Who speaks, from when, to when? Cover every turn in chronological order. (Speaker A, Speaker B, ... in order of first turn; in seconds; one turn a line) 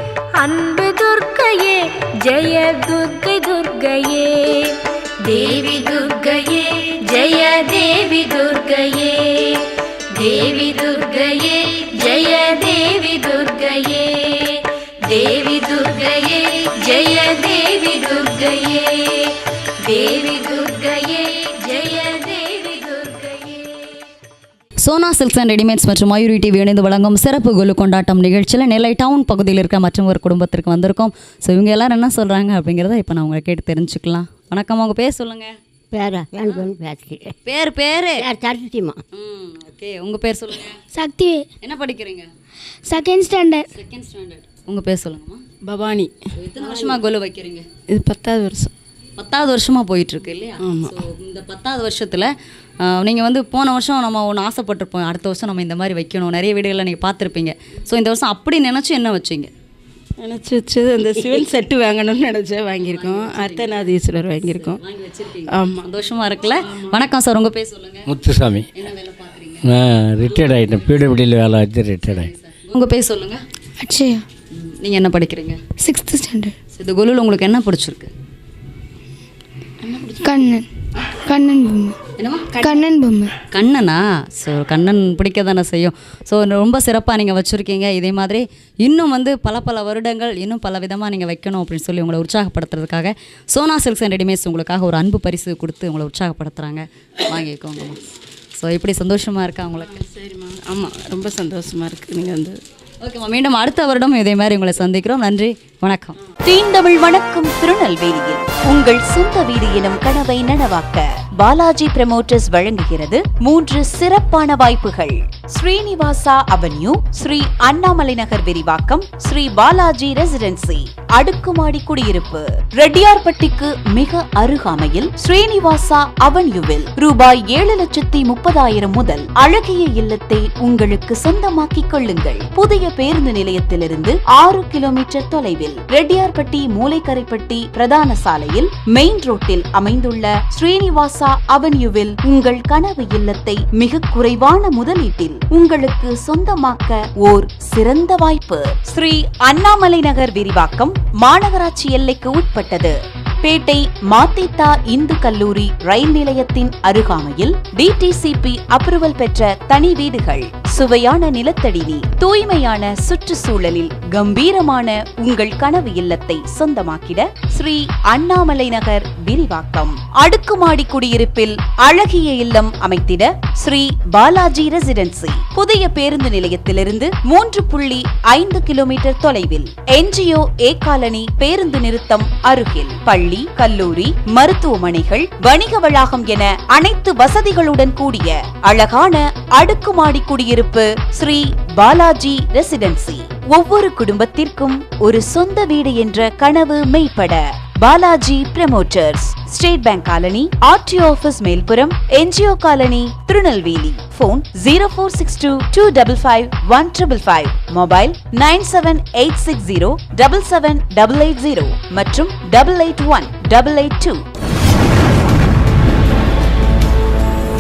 Speaker A: 0.4-24.1
Speaker B: 24.8-35.6
Speaker B: 37.4-38.3
Speaker B: 39.1-40.8
Speaker C: 40.9-41.5
Speaker B: 41.6-42.3
Speaker C: 42.9-43.7
Speaker B: 43.7-45.4
Speaker D: 45.6-46.1
Speaker B: 46.4-47.7
Speaker D: 47.9-48.7
Speaker B: 49.2-59.5
Speaker D: 50.6-51.0
Speaker D: 60.2-64.8
Speaker B: 62.8-68.1
Speaker D: 65.5-65.9
Speaker E: 68.1-68.7
Speaker B: 68.7-69.7
Speaker E: 69.6-72.3
Speaker B: 72.1-73.4
Speaker C: 73.8-74.2
Speaker B: 74.5-75.6
Speaker C: 75.8-76.5
Speaker B: 76.7-78.1
Speaker B: 79.9-80.2
Speaker C: 80.2-80.7
Speaker C: 81.2-82.0
Speaker B: 82.2-82.6
Speaker C: 82.6-83.3
Speaker B: 83.5-98.0
Speaker B: 98.6-99.9
Speaker D: 99.8-102.6
Speaker B: 103.0-106.2
Speaker F: 106.4-214.2